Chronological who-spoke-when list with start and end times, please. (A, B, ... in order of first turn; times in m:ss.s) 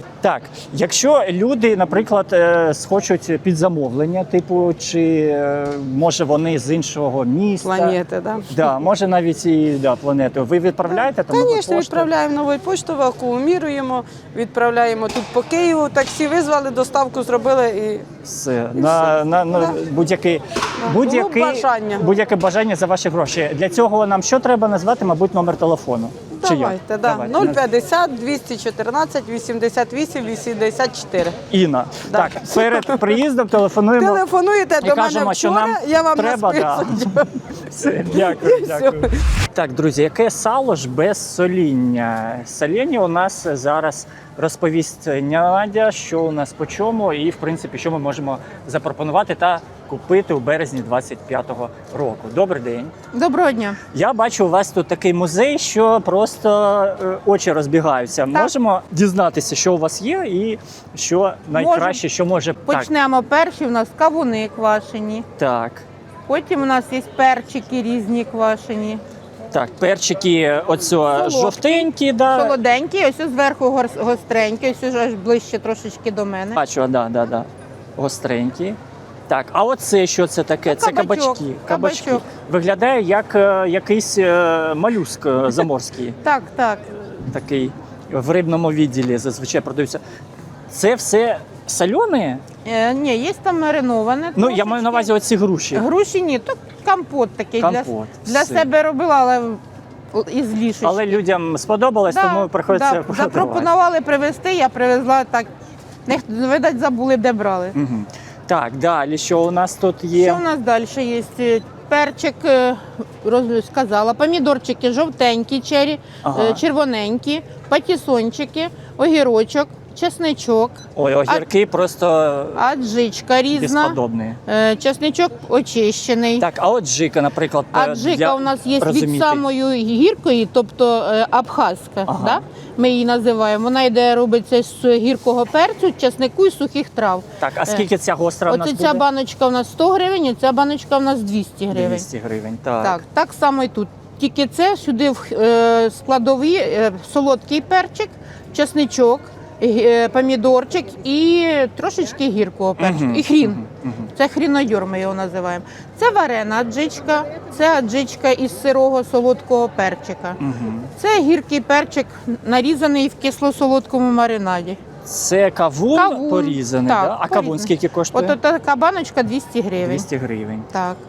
0:00.2-0:08.0 A
0:07.6-0:08.7 B
0:08.5-0:12.1 A
0:10.9-0:18.0 B
0:18.2-0:27.6 A
0:18.8-0:19.8 B
0:20.8-0:22.0 B
0:26.4-0:31.4 B
0:31.5-0:34.2 A
0:32.0-0:33.2 B
0:34.0-0:37.3 B
0:34.8-0:52.9 A
0:38.1-0:39.1 B
0:53.1-0:53.8 C
0:53.9-1:02.9 A
1:01.5-1:02.0 C
1:02.6-1:05.2 C
1:05.4-1:05.8 A
1:06.3-1:09.0 C
1:09.5-1:12.6 A
1:11.1-1:16.6 C
1:16.5-1:26.2 A
1:20.6-1:22.2 C
1:26.2-1:27.1 C
1:27.2-1:30.0 A
1:30.7-1:32.4 A
1:32.6-1:35.1 C
1:34.4-1:35.8 A
1:35.7-1:41.2 C
1:37.6-1:38.7 A
1:40.8-1:43.7 A
1:42.1-1:45.5 C
1:46.1-1:47.8 C
1:47.7-1:50.4 A
1:50.1-2:01.5 C
1:56.2-1:56.6 A
2:00.9-2:02.6 A
2:02.5-2:06.5 C
2:03.5-2:04.4 A
2:06.4-2:09.4 A
2:07.7-2:17.9 C
2:12.0-2:12.4 A
2:17.4-2:19.0 A
2:18.5-2:22.1 C
2:21.7-2:23.0 A
2:22.8-2:33.6 C
2:32.8-2:34.1 A
2:34.1-2:40.4 C
2:40.4-2:40.9 A
2:41.0-2:44.8 C
2:45.0-2:48.4 A
2:45.9-2:50.1 C
2:49.8-2:50.7 A
2:50.7-2:51.0 C